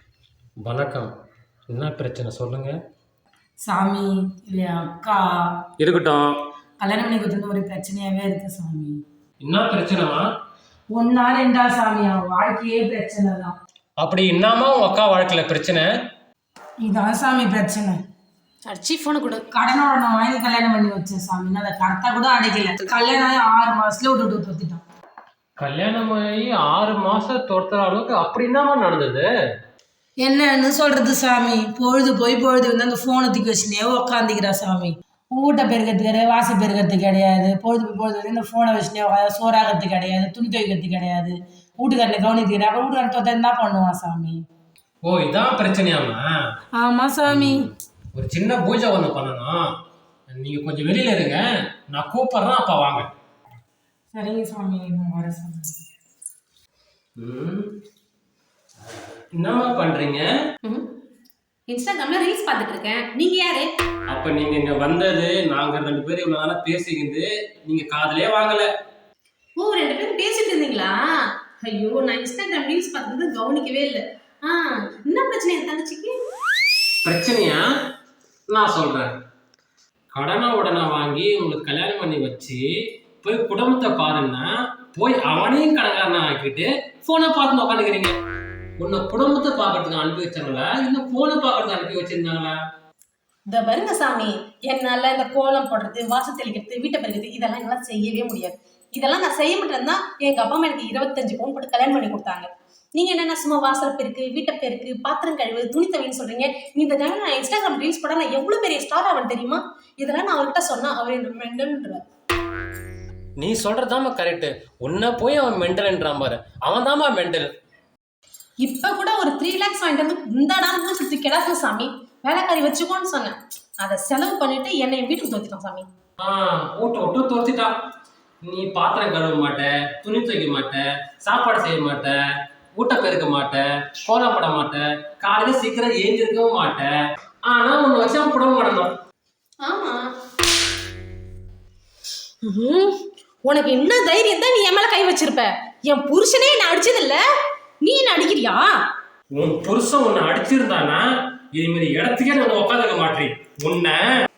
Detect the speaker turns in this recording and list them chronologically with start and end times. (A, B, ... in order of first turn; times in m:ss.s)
0:00.6-0:01.1 A
0:01.7-0:02.8 A
0:03.6-0:05.2 B
0:05.8-0:06.4 A
0:06.8-0:09.0 B
0:09.4-0:10.2 A
0:10.9-0:13.6 B
0:14.0-0:15.9 A
0:16.8-0:18.0 B
0:18.6-0:19.4 C
0:19.5-0:24.8 B
0:25.6-0:29.3 A
0:30.2-0:44.4 B
0:45.0-0:46.2 A
0:46.8-0:47.7 B
0:47.4-0:47.6 A
0:48.2-0:49.6 A
0:50.3-0:53.1 A
0:54.1-0:55.7 B
0:57.2-0:57.7 A
0:59.4-1:00.3 A
1:01.7-1:03.7 C
1:04.1-1:08.7 A
1:09.6-1:11.0 C
1:11.6-1:16.2 C
1:17.0-1:17.6 A
1:18.5-1:19.2 A
1:20.1-1:22.6 A
1:23.2-1:28.2 A
1:28.8-1:32.6 A
1:33.5-1:52.0 C
1:53.4-1:57.5 A
1:58.6-2:05.9 C
2:06.2-2:07.7 A
2:08.4-2:12.2 A
2:12.8-2:16.9 A
2:17.5-2:19.0 A
2:19.6-2:20.1 C
2:22.4-2:27.2 C
2:27.8-2:28.7 C
2:29.3-2:34.0 A